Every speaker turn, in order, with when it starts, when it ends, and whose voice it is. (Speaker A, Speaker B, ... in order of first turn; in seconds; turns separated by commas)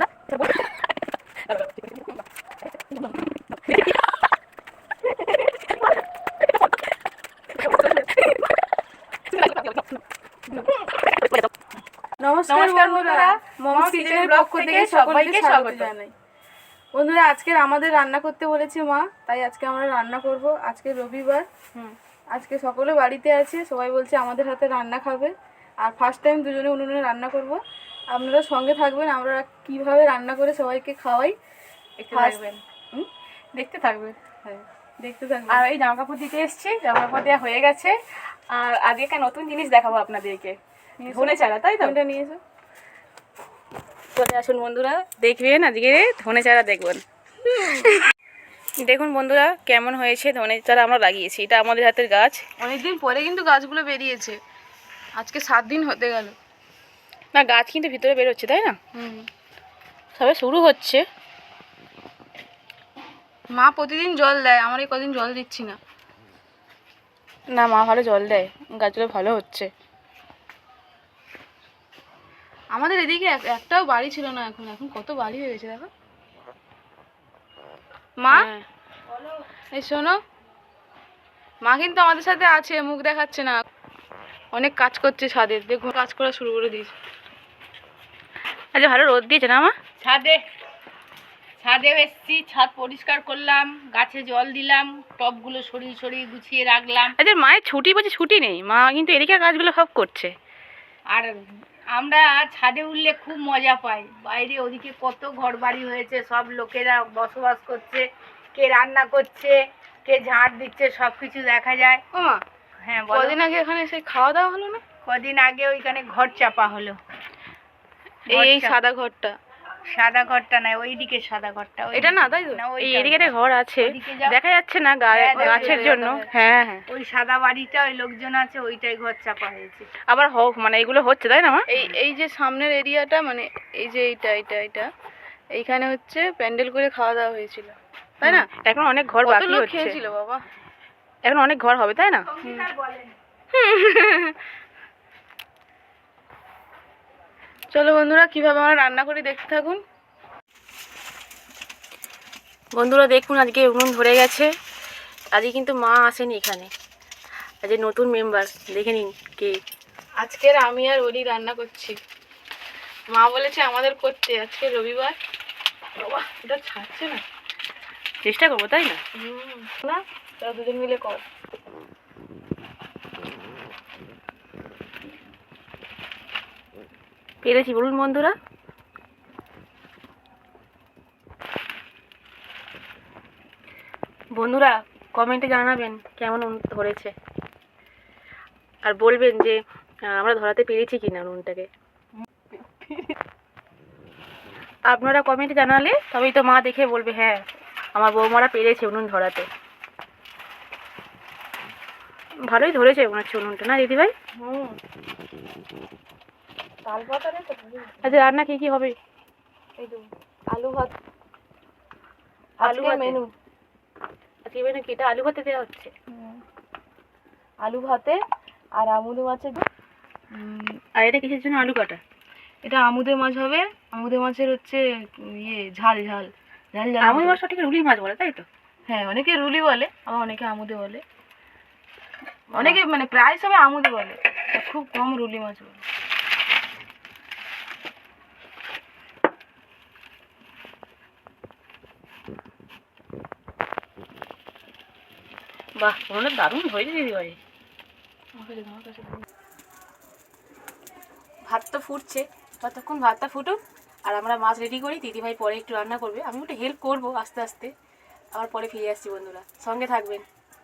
Speaker A: 12.2-16.1, Speaker B: 12.5-15.9, Speaker A: 16.9-21.4, Speaker A: 22.3-27.6, Speaker A: 28.1-31.4, Speaker B: 32.0-34.6, Speaker A: 32.1-32.5, Speaker A: 35.0-35.7, Speaker B: 35.5-42.0, Speaker A: 41.0-42.4, Speaker B: 44.1-47.0, Speaker A: 47.5-48.0, Speaker B: 48.8-52.4, Speaker A: 52.6-54.4, Speaker A: 55.2-56.4, Speaker B: 57.3-58.8, Speaker A: 58.9-59.3, Speaker B: 60.1-61.0, Speaker A: 63.5-65.8, Speaker B: 67.5-68.7, Speaker A: 72.7-75.9, Speaker A: 78.2-78.5, Speaker B: 78.3-78.7, Speaker A: 79.5-80.2, Speaker A: 81.6-83.6, Speaker A: 84.5-86.9, Speaker B: 88.7-89.8, Speaker C: 90.0-90.4, Speaker C: 91.6-97.2, Speaker B: 97.2-100.3, Speaker C: 101.1-112.0, Speaker A: 112.1-112.4, Speaker C: 112.8-113.4, Speaker A: 113.1-114.8, Speaker C: 115.0-117.0, Speaker C: 118.3-118.8, Speaker A: 118.3-119.3, Speaker C: 119.9-124.4, Speaker A: 121.9-122.7, Speaker B: 122.8-126.8, Speaker C: 125.1-126.2, Speaker A: 125.4-126.3, Speaker C: 126.9-129.9, Speaker B: 130.1-131.9, Speaker A: 131.7-134.9, Speaker A: 135.5-138.5, Speaker B: 138.2-140.0, Speaker A: 139.2-140.5, Speaker B: 141.2-142.7, Speaker C: 142.2-143.2, Speaker A: 143.5-144.4, Speaker A: 147.7-149.8, Speaker B: 152.8-154.5, Speaker B: 155.3-156.7, Speaker B: 157.6-159.6, Speaker A: 160.2-162.0, Speaker A: 163.1-165.2, Speaker A: 166.0-167.2, Speaker B: 168.2-169.0, Speaker A: 169.2-171.2, Speaker B: 177.4-178.3, Speaker B: 184.3-187.1, Speaker B: 188.8-189.6, Speaker B: 190.1-191.7, Speaker B: 194.9-197.4, Speaker B: 197.9-199.5, Speaker B: 202.4-204.1, Speaker A: 204.4-204.8, Speaker A: 206.8-208.3, Speaker B: 208.0-209.0, Speaker A: 209.8-210.9, Speaker A: 212.6-213.3, Speaker B: 212.6-213.2, Speaker B: 214.4-215.9, Speaker A: 216.1-216.4, Speaker A: 217.6-218.2, Speaker A: 218.8-219.6, Speaker A: 220.3-220.8, Speaker B: 220.9-222.0, Speaker A: 222.6-227.4, Speaker B: 227.0-228.5, Speaker A: 228.9-231.0, Speaker B: 232.5-232.8, Speaker A: 232.5-235.8, Speaker B: 245.8-247.4, Speaker B: 251.5-257.7, Speaker B: 258.3-260.2